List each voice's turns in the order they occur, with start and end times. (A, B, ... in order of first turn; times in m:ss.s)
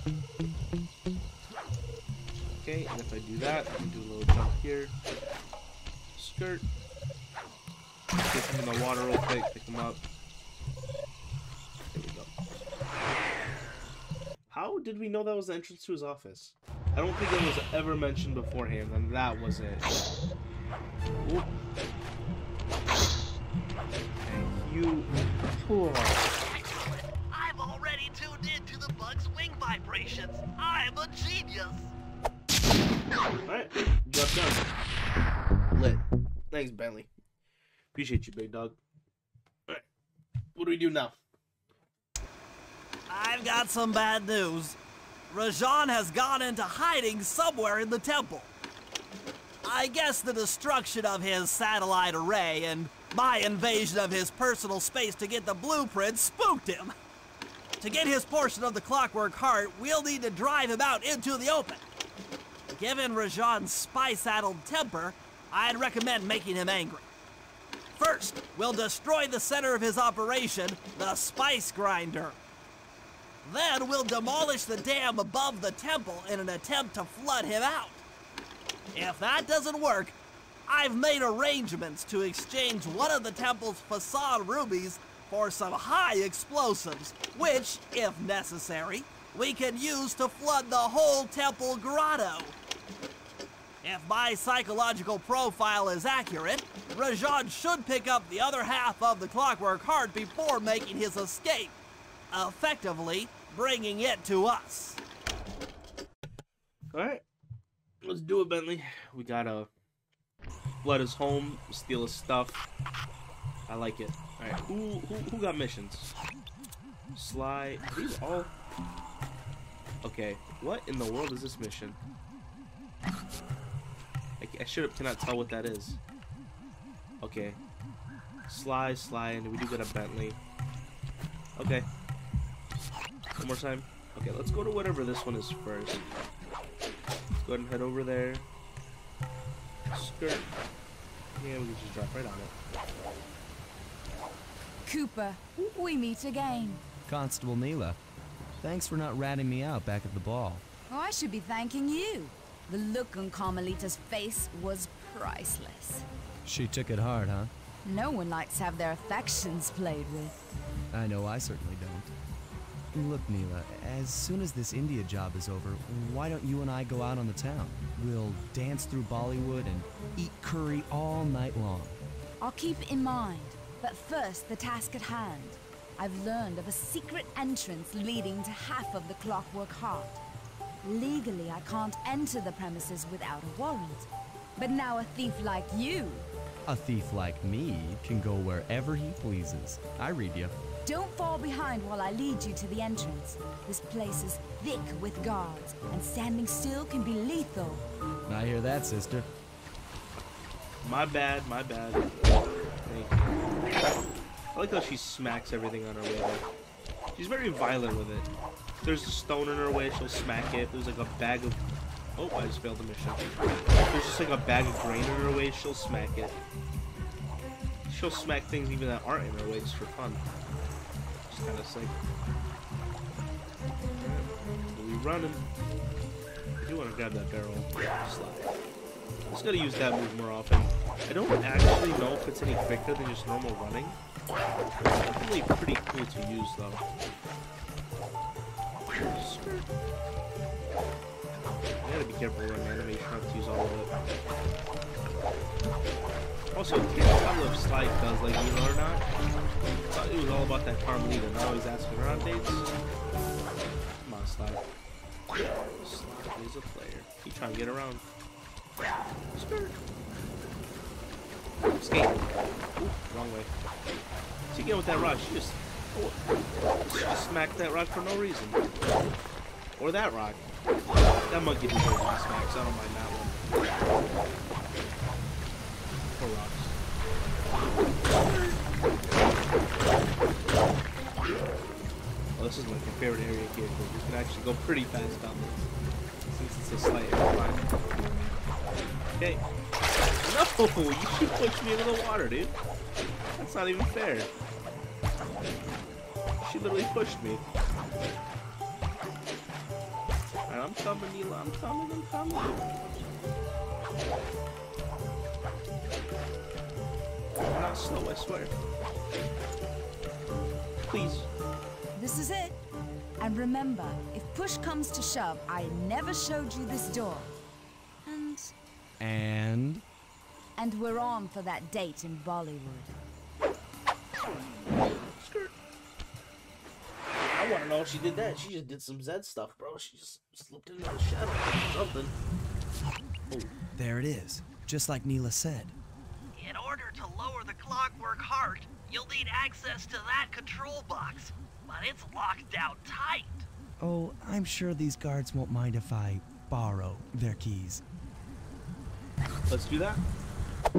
0:02.6-0:04.9 A
0:06.2-0:06.7 A
0:08.3-0:10.0 A
0:11.9-0:12.3 A
0:14.5-0:20.0 A
0:21.2-0:21.5 A
0:24.2-0:26.3 A
0:26.4-0:31.9 B
0:33.4-0:34.6 A
0:35.7-0:37.1 A
0:37.9-0:38.8 A
0:40.6-0:41.2 A
0:43.1-0:44.8 B
0:45.3-0:48.5 B
0:49.6-0:56.9 B
0:57.8-1:01.8 B
1:02.7-1:07.0 B
1:07.9-1:12.4 B
1:13.4-1:18.0 B
1:18.9-1:20.1 B
1:20.7-1:32.6 B
1:33.8-1:41.8 B
1:42.3-1:45.0 B
1:46.9-1:47.2 A
1:48.0-1:49.7 A
1:50.8-1:52.6 A
1:53.7-1:56.1 A
1:57.1-1:58.5 A
2:00.0-2:02.0 A
2:04.4-2:06.0 A
2:07.2-2:07.6 A
2:08.5-2:10.4 A
2:11.6-2:11.9 A
2:13.4-2:16.0 A
2:17.4-2:18.5 A
2:19.9-2:20.5 A
2:21.4-2:22.5 A
2:24.9-2:26.8 C
2:27.1-2:28.0 D
2:28.6-2:30.6 D
2:30.9-2:36.0 C
2:36.4-2:37.5 D
2:37.8-2:40.4 C
2:40.9-2:42.1 D
2:42.9-2:52.0 D
2:52.4-3:00.2 C
3:00.8-3:06.3 C
3:06.7-3:10.6 D
3:10.8-3:17.9 C
3:18.3-3:19.3 D
3:20.8-3:22.1 A
3:22.9-3:23.2 A
3:24.5-3:26.4 A
3:27.1-3:28.3 A
3:28.8-3:31.6 A
3:32.2-3:33.2 A
3:33.9-3:36.4 A
3:37.9-3:40.2 A
3:41.3-3:41.9 A
3:43.9-3:45.4 A
3:46.6-3:48.5 A
3:49.3-3:54.0 A
3:55.0-3:56.8 A
3:59.1-3:59.7 A
4:01.8-4:03.9 A
4:06.5-4:09.0 A
4:09.9-4:12.7 A
4:14.0-4:14.6 A
4:15.8-4:18.0 A
4:19.3-4:19.8 A
4:21.7-4:23.5 A
4:24.5-4:28.6 A
4:29.8-4:30.4 A
4:31.3-4:33.4 A
4:36.1-4:36.7 A
4:38.1-4:38.6 A
4:42.4-4:45.7 A
4:46.3-4:47.6 A
4:49.2-4:49.4 A
4:50.2-4:52.5 A
4:53.4-4:54.3 A
4:56.4-4:57.4 A
5:00.5-5:02.7 A
5:07.4-5:08.5 A
5:10.9-5:11.3 A
5:11.9-5:12.6 C
5:13.2-5:17.3 C
5:18.0-5:18.5 C
5:19.0-5:19.8 D
5:20.6-5:22.9 C
5:24.8-5:25.5 A
5:27.3-5:32.1 A
5:33.7-5:35.8 D
5:36.3-5:43.5 B
5:43.8-5:47.8 D
5:49.5-5:50.0 A